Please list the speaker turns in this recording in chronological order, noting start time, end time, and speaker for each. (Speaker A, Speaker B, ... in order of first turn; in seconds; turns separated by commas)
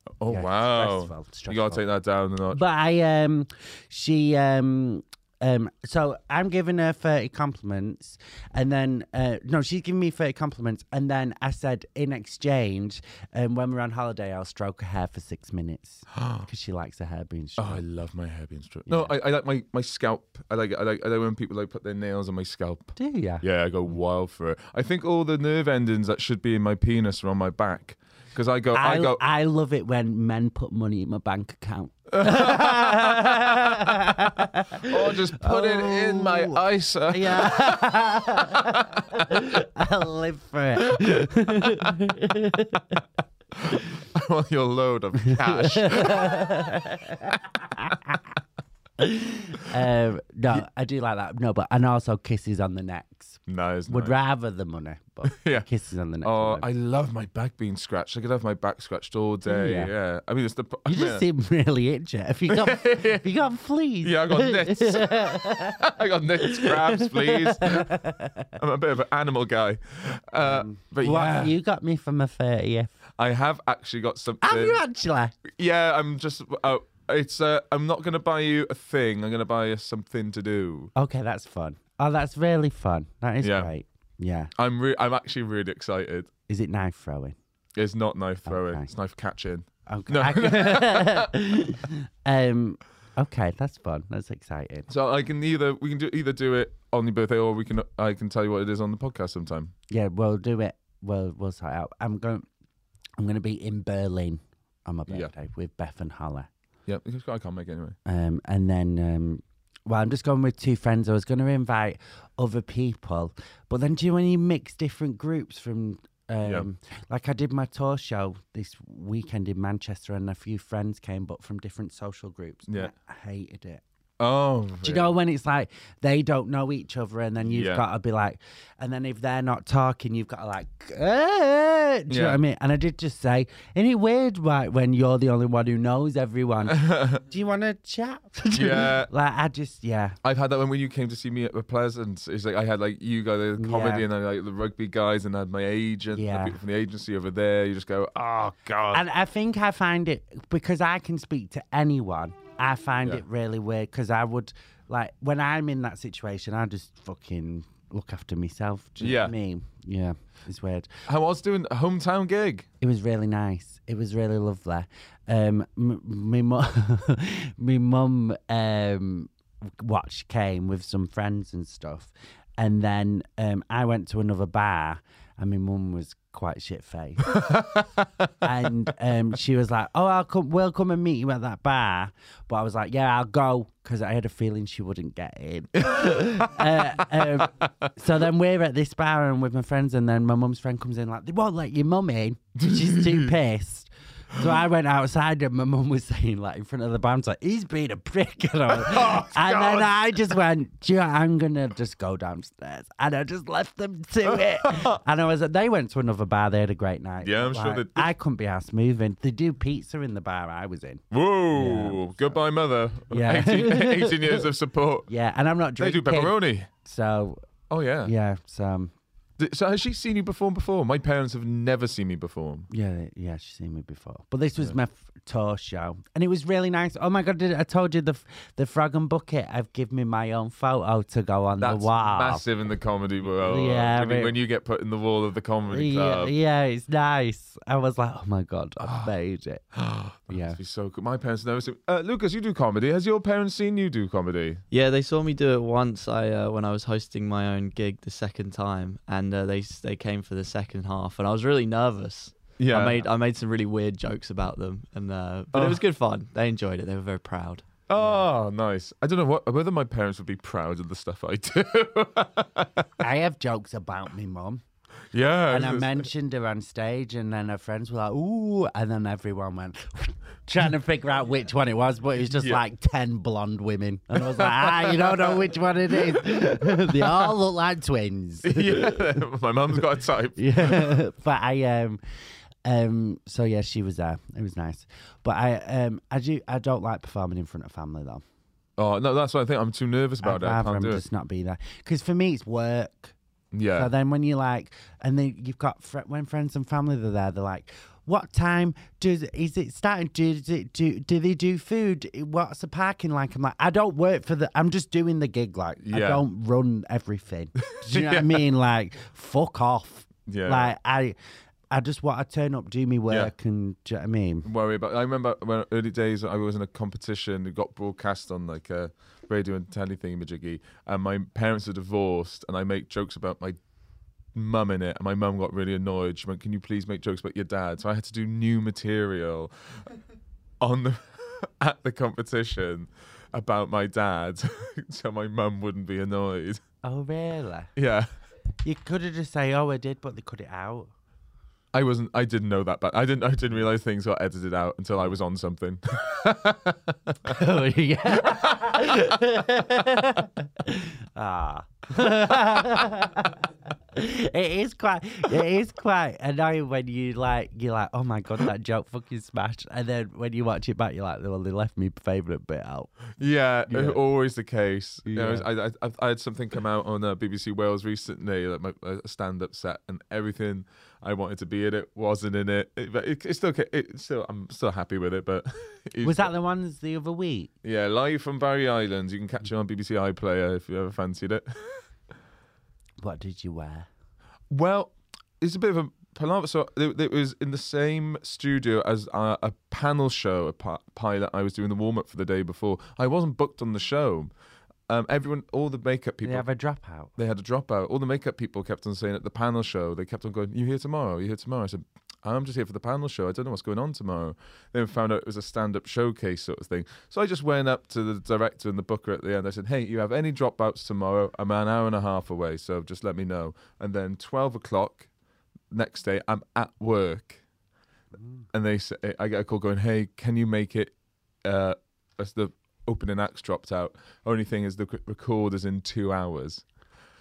Speaker A: 0.2-2.6, Speaker B: 0.3-1.8, Speaker B: 2.5-17.8, Speaker A: 16.1-16.4, Speaker A: 17.6-29.2, Speaker B: 18.9-19.1, Speaker B: 23.0-23.4, Speaker B: 28.7-43.0, Speaker A: 32.1-34.1, Speaker A: 34.8-39.0, Speaker A: 43.5-48.0, Speaker B: 45.3-48.2, Speaker B: 49.0-56.7, Speaker A: 53.5-54.2, Speaker A: 55.2-55.7, Speaker A: 56.2-61.2, Speaker B: 59.5-59.9, Speaker B: 60.9-68.5, Speaker A: 62.5-63.3, Speaker A: 64.0-68.0, Speaker A: 68.5-71.5, Speaker B: 70.4-72.9, Speaker A: 73.2-74.8, Speaker B: 74.4-75.3, Speaker A: 75.5-80.9, Speaker B: 81.0-84.5, Speaker A: 83.4-83.7, Speaker A: 84.6-86.3, Speaker B: 86.5-87.4, Speaker A: 87.8-91.3, Speaker B: 88.5-88.9, Speaker B: 89.9-94.9, Speaker A: 94.9-99.7, Speaker B: 99.9-102.5, Speaker B: 103.2-106.5, Speaker A: 106.9-108.0, Speaker B: 108.0-123.8, Speaker A: 124.2-125.2, Speaker B: 124.8-140.2, Speaker A: 127.4-127.8, Speaker A: 132.1-132.4, Speaker A: 136.7-137.2, Speaker A: 138.5-139.1, Speaker A: 140.2-149.0, Speaker B: 143.6-144.1, Speaker B: 146.1-146.6, Speaker B: 148.9-160.9, Speaker A: 159.0-159.3, Speaker A: 161.1-162.7, Speaker B: 162.8-177.6, Speaker A: 177.3-178.3, Speaker B: 178.4-211.0, Speaker A: 185.8-187.9, Speaker A: 192.6-193.3, Speaker A: 198.7-200.2, Speaker A: 204.3-205.0, Speaker A: 207.2-208.1, Speaker A: 211.1-215.1, Speaker B: 211.5-212.4, Speaker B: 213.1-214.5, Speaker B: 215.1-217.4, Speaker A: 215.8-216.7, Speaker A: 217.7-218.1, Speaker B: 218.0-218.9, Speaker A: 219.4-222.7, Speaker B: 222.7-232.4, Speaker A: 231.6-236.3, Speaker B: 233.2-234.3, Speaker B: 235.7-239.7, Speaker A: 238.8-239.1, Speaker A: 239.7-244.6, Speaker B: 240.3-240.6, Speaker C: 244.7-258.2, Speaker A: 252.6-253.1, Speaker A: 255.5-255.8, Speaker A: 257.9-262.9, Speaker B: 263.0-264.6, Speaker A: 265.1-266.0, Speaker B: 265.5-279.2, Speaker A: 272.4-272.6, Speaker A: 274.2-275.4, Speaker A: 275.9-277.2, Speaker A: 278.4-281.0, Speaker B: 280.4-282.0, Speaker B: 282.6-288.2, Speaker A: 288.8-291.0, Speaker B: 290.2-293.1, Speaker A: 293.5-293.9, Speaker B: 293.7-311.2, Speaker A: 305.9-306.2, Speaker A: 307.7-308.4, Speaker A: 310.3-310.7, Speaker B: 311.7-314.5, Speaker A: 314.4-323.6, Speaker A: 324.4-329.5, Speaker A: 330.6-336.6, Speaker B: 336.8-337.7, Speaker A: 337.8-338.1, Speaker B: 338.6-340.9, Speaker A: 341.7-347.4, Speaker B: 347.2-362.9, Speaker A: 363.2-376.3, Speaker B: 363.7-364.0, Speaker B: 365.1-365.5, Speaker B: 376.0-377.5, Speaker A: 377.6-381.8, Speaker B: 383.0-383.9, Speaker A: 384.5-394.3, Speaker A: 394.9-396.5, Speaker B: 396.2-397.1, Speaker A: 397.2-415.1, Speaker A: 415.7-417.4, Speaker A: 418.5-426.6